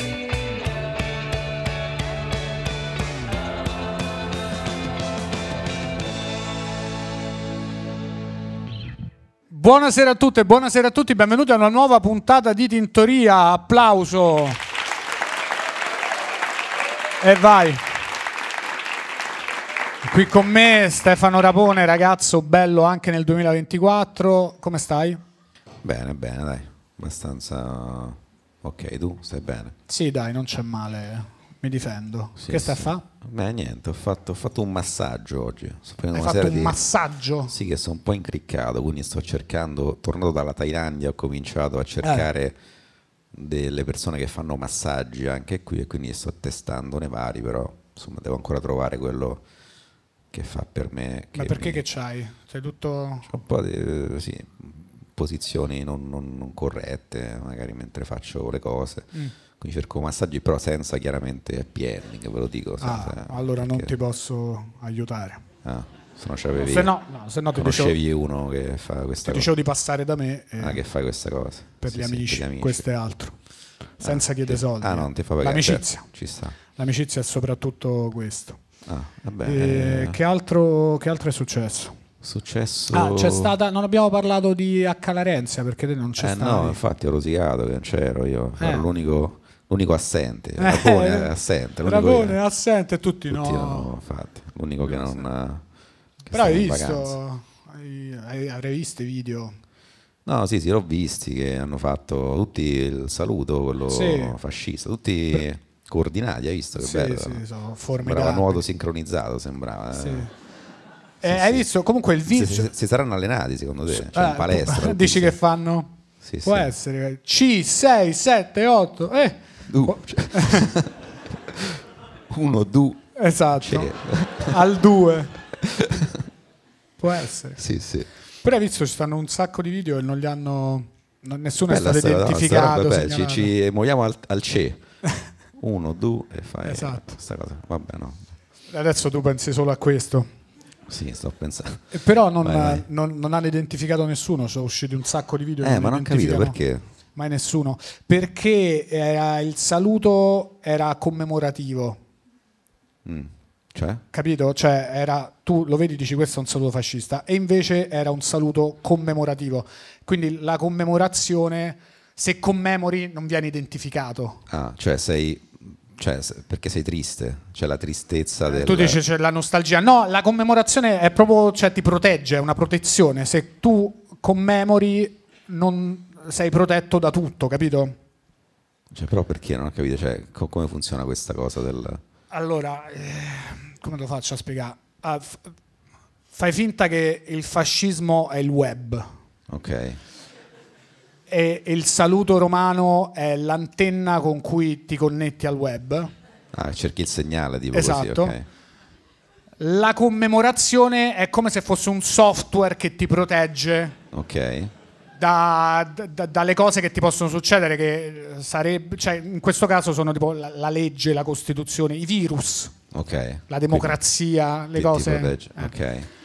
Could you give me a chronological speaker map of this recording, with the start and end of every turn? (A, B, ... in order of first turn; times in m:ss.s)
0:09.5-0:14.6 A
0:17.2-0:17.8 A
0:20.0-0:25.2 A
0:25.8-0:29.8 B
0:29.9-0:33.0 A
0:32.4-0:36.8 B
0:36.1-0:37.5 A
0:37.5-0:42.6 B
0:42.0-0:42.3 A
0:43.3-0:49.4 B
0:50.3-0:51.8 B
0:51.4-0:53.3 A
0:53.3-1:03.9 B
1:02.8-1:05.4 A
1:05.6-1:06.9 B
1:06.6-1:08.0 A
1:07.6-1:09.5 B
1:09.2-1:10.8 A
1:10.6-1:12.8 B
1:11.8-1:13.4 A
1:14.0-1:16.1 A
1:14.0-1:16.6 B
1:16.7-1:18.6 A
1:18.9-1:20.2 B
1:19.4-1:22.0 A
1:22.2-1:23.5 B
1:22.9-1:26.8 A
1:26.2-1:32.4 B
1:28.6-1:28.8 A
1:30.6-1:33.9 A
1:33.3-1:35.6 B
1:34.8-1:35.3 A
1:36.3-1:37.2 B
1:36.3-1:39.6 A
1:40.3-1:47.4 B
1:43.9-1:44.4 A
1:46.8-1:48.6 A
1:48.0-1:50.3 B
1:50.0-1:50.3 A
1:51.2-1:52.7 A
1:51.2-1:51.7 B
1:52.3-1:55.4 B
1:53.9-2:00.8 A
1:56.2-1:56.7 B
1:59.7-2:01.0 B
2:01.5-2:03.1 B
2:03.2-2:05.4 A
2:03.6-2:04.6 B
2:05.6-2:06.2 B
2:07.0-2:07.6 A
2:07.6-2:08.1 B
2:08.4-2:13.5 A
2:11.7-2:14.8 B
2:15.6-2:18.2 B
2:16.6-2:17.2 A
2:18.7-2:20.3 A
2:20.9-2:22.9 B
2:21.9-2:26.6 A
2:25.6-2:26.8 B
2:27.2-2:32.0 A
2:33.0-2:34.0 B
2:34.1-2:44.5 A
2:44.5-2:49.0 B
2:48.5-2:58.0 A
2:58.9-3:02.0 B
3:02.3-3:05.5 A
3:06.3-3:09.2 A
3:09.5-3:10.0 B
3:11.3-3:16.1 A
3:16.5-3:18.5 B
3:17.7-3:18.4 A
3:19.6-3:24.0 A
3:24.1-3:24.7 B
3:25.2-3:32.8 A
3:32.9-3:34.0 B
3:33.5-3:35.8 A
3:34.7-3:36.1 B